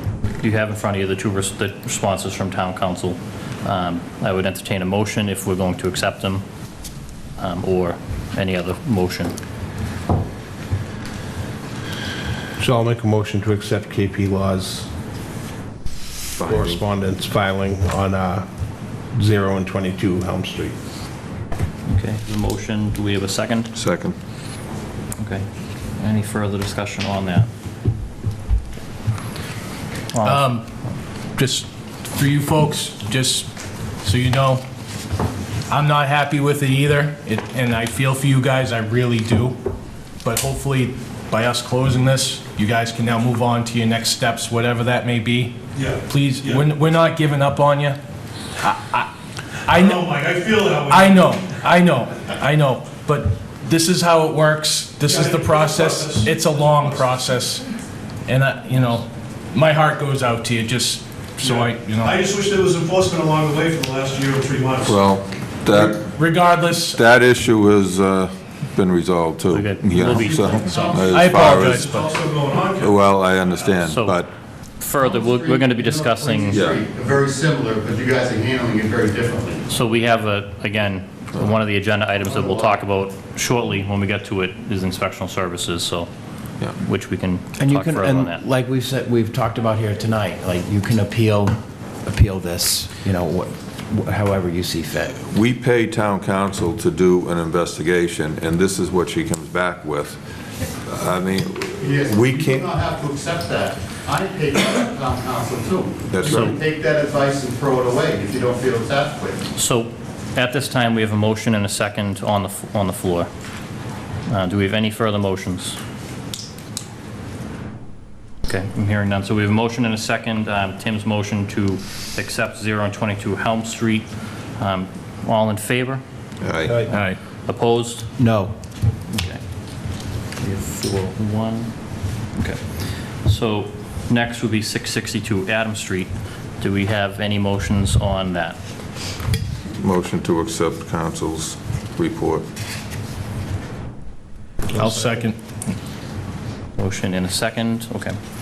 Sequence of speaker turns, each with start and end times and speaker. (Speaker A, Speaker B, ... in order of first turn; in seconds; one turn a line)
Speaker A: 0.4-6.4
Speaker A: 7.4-9.3
Speaker B: 12.6-14.9
Speaker C: 16.4-16.8
Speaker B: 16.4-18.5
Speaker B: 19.1-20.7
Speaker A: 21.9-23.7
Speaker C: 23.7-24.1
Speaker A: 25.2-27.5
Speaker A: 30.1-30.5
Speaker D: 30.2-30.6
Speaker D: 31.4-34.6
Speaker D: 35.7-39.6
Speaker D: 40.2-48.0
Speaker E: 45.7-46.6
Speaker D: 48.6-49.1
Speaker D: 49.6-50.1
Speaker E: 49.8-51.4
Speaker D: 50.9-57.7
Speaker E: 55.1-56.3
Speaker D: 58.2-62.2
Speaker E: 61.4-65.0
Speaker C: 64.8-71.6
Speaker D: 65.9-67.0
Speaker A: 69.5-71.1
Speaker F: 70.1-71.7
Speaker D: 71.1-72.1
Speaker E: 71.5-73.0
Speaker C: 72.8-74.3
Speaker A: 73.8-74.2
Speaker A: 74.8-76.6
Speaker F: 75.0-79.6
Speaker C: 76.5-76.8
Speaker A: 79.7-86.1
Speaker F: 82.2-82.8
Speaker A: 86.8-88.4
Speaker G: 87.6-95.1
Speaker C: 95.1-100.2
Speaker C: 100.8-102.7
Speaker F: 101.8-109.4
Speaker C: 106.1-106.5
Speaker A: 106.2-106.6
Speaker A: 109.5-113.3
Speaker A: 114.3-115.8
Speaker A: 118.5-126.0
Speaker C: 126.4-126.8
Speaker B: 126.6-127.0
Speaker D: 126.9-127.2
Speaker A: 127.5-128.1
Speaker G: 128.2-128.5
Speaker A: 129.1-129.4
Speaker A: 130.3-131.8
Speaker A: 132.3-138.6
Speaker C: 139.8-142.5
Speaker D: 144.7-145.4
Speaker A: 146.8-148.2